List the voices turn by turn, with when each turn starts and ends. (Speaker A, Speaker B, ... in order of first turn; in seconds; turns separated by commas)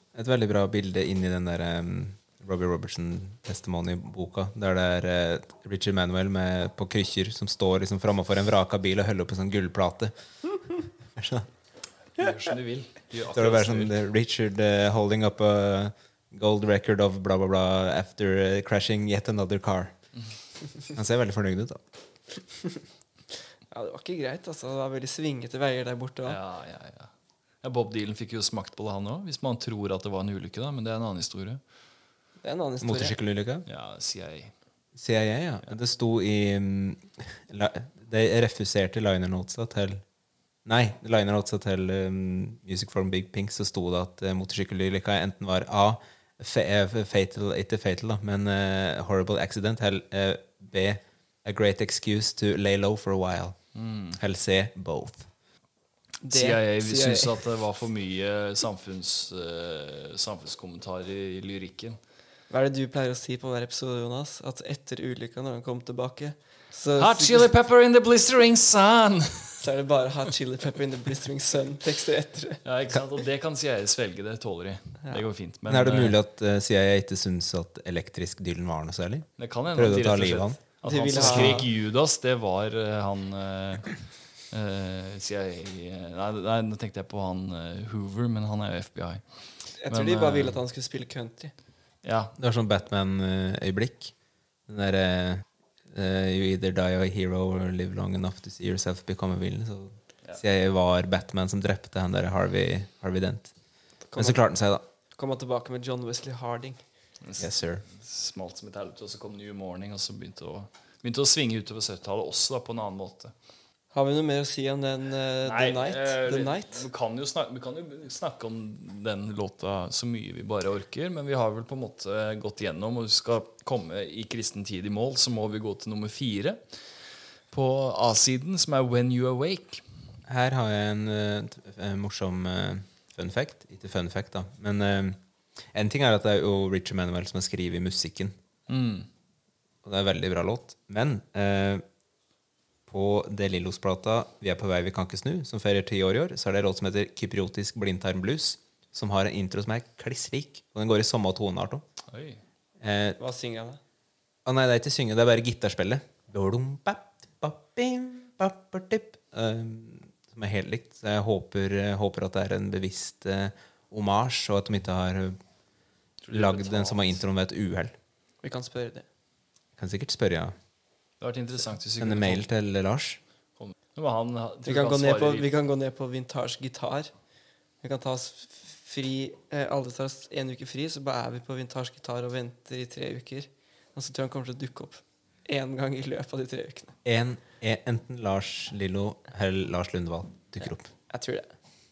Speaker A: 0.1-10.1, Speaker A: 11.2-11.5, Speaker B: 12.2-13.9, Speaker A: 13.3-19.9, Speaker A: 20.9-21.8, Speaker C: 23.7-26.4, Speaker B: 26.2-27.1, Speaker B: 27.6-31.6, Speaker C: 32.4-33.2, Speaker A: 32.8-33.6, Speaker B: 33.7-34.5, Speaker A: 34.9-40.0, Speaker A: 40.6-53.6, Speaker B: 53.7-54.2, Speaker A: 54.1-55.3, Speaker C: 56.2-57.4, Speaker B: 56.3-62.0, Speaker C: 62.5-67.5, Speaker B: 67.0-69.6, Speaker C: 69.6-72.6, Speaker B: 72.6-76.2, Speaker A: 75.7-80.6, Speaker B: 79.4-84.0, Speaker C: 80.8-81.7, Speaker A: 81.2-81.6, Speaker B: 84.5-89.2, Speaker C: 89.8-91.5, Speaker B: 89.9-90.6, Speaker B: 92.0-92.3, Speaker A: 92.4-94.1, Speaker A: 94.7-103.5, Speaker C: 104.1-104.4, Speaker A: 104.2-104.8, Speaker C: 105.2-106.8, Speaker B: 107.2-113.3, Speaker A: 107.4-107.8, Speaker C: 113.9-116.8, Speaker B: 115.4-126.6, Speaker B: 127.5-129.8, Speaker A: 130.3-135.2, Speaker A: 135.7-138.3, Speaker B: 138.7-139.1, Speaker A: 139.8-141.8, Speaker A: 142.9-151.8, Speaker B: 152.1-152.4, Speaker A: 152.8-153.2, Speaker C: 153.2-153.8, Speaker A: 154.4-165.4, Speaker B: 166.2-167.2, Speaker A: 166.3-167.9, Speaker C: 168.4-169.1, Speaker A: 169.8-170.5, Speaker B: 171.2-172.4, Speaker A: 172.0-173.2, Speaker B: 173.6-175.5, Speaker C: 174.6-177.1, Speaker C: 177.8-186.9, Speaker A: 187.0-190.9, Speaker C: 191.1-191.5